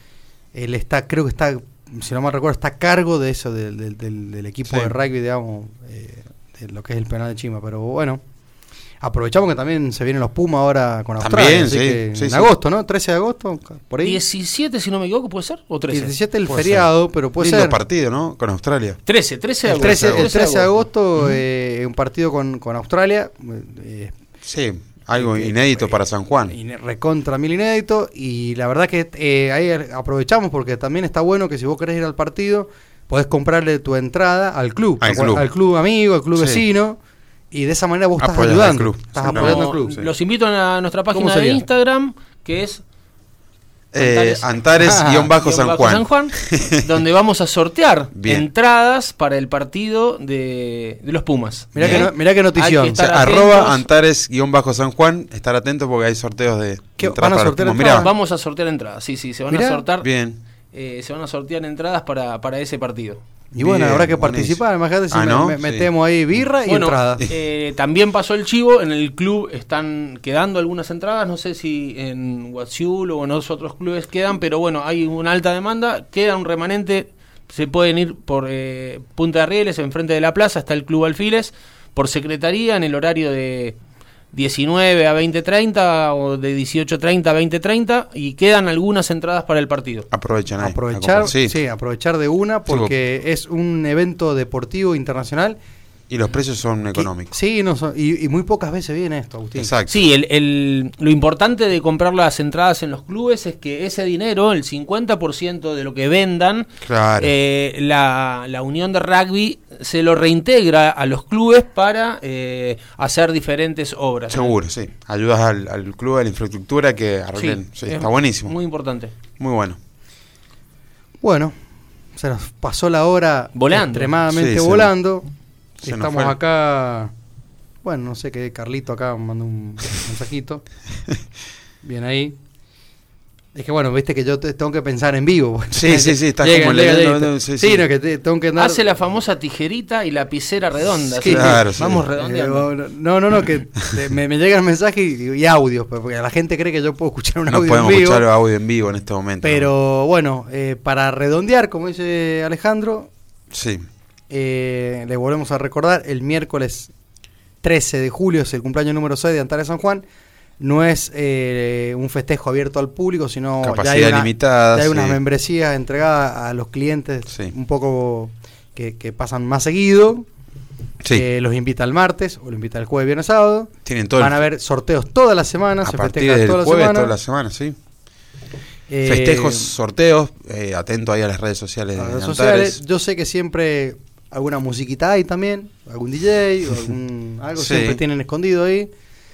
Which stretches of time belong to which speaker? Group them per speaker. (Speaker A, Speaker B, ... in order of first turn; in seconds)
Speaker A: 0.5-8.2, 9.0-14.2, 15.9-17.8, 19.6-24.1, 25.2-37.0, 37.5-40.0, 41.1-41.6, 44.7-45.3, 51.7-53.1, 57.0-58.1, 59.5-59.8, 63.5-67.2, 90.6-95.6, 97.0-99.7, 121.2-121.5, 122.2-125.3, 125.8-127.1, 127.8-130.6, 131.8-132.4, 133.6-138.9, 141.1-148.3, 149.4-153.1, 154.3-156.9, 157.6-160.0, 160.6-170.3, 171.1-177.1, 178.9-179.7, 182.0-188.9
Speaker B: 4.7-4.9, 11.2-12.5, 16.5-19.0, 19.7-20.3, 24.4-26.6, 35.0-35.5, 36.4-36.6, 38.2-40.1, 43.9-46.8, 48.1-48.5, 51.8-52.1, 52.9-58.1, 60.0-60.4, 63.6-64.6, 65.1-65.9, 90.1-91.6, 92.7-92.9, 96.1-97.3, 99.6-100.0, 106.8-107.3, 114.3-118.5, 119.4-119.8, 124.3-124.9, 125.8-126.3, 135.7-137.9, 141.2-142.0, 147.5-149.7, 153.5-153.9, 163.6-165.2, 173.8-174.4, 175.8-177.8, 179.0-182.8, 187.6-188.0
Speaker C: 14.0-16.1, 19.1-20.8, 39.2-42.8, 44.0-44.5, 45.4-53.9, 57.9-60.1, 60.7-63.2, 66.7-83.8, 84.3-90.1, 99.9-114.5, 117.4-119.1, 123.5-124.1, 138.6-142.7